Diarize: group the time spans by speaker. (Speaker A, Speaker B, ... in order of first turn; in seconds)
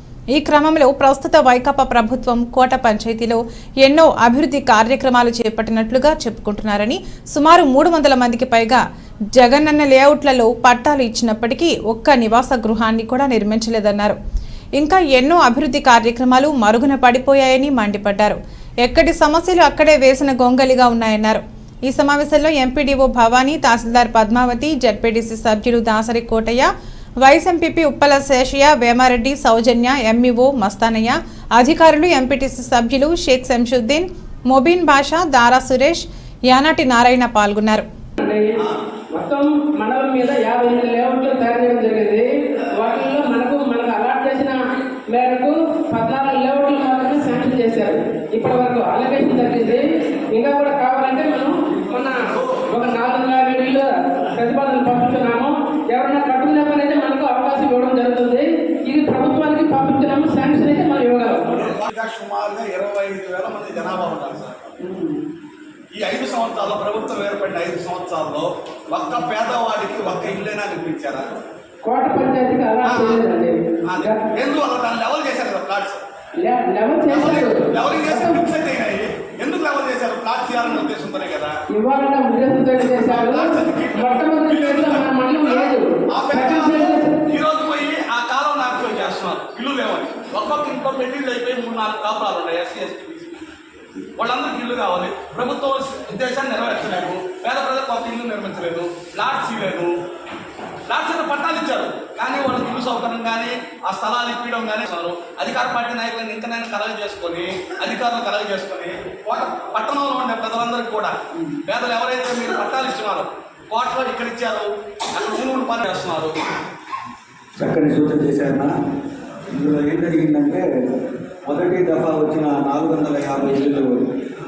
Speaker A: 0.3-8.8, 9.4-14.2, 14.8-26.7, 27.2-37.8
Speaker B: 38.2-38.6, 39.2-61.6, 64.8-65.2, 71.8-74.2, 76.4-78.5, 81.7-87.2
Speaker C: 61.5-64.7, 66.0-71.3, 72.8-73.2, 73.8-76.0, 77.1-81.6, 82.8-93.4, 94.2-99.9, 100.9-116.4
Speaker D: 117.6-118.7, 119.5-120.7, 121.5-124.0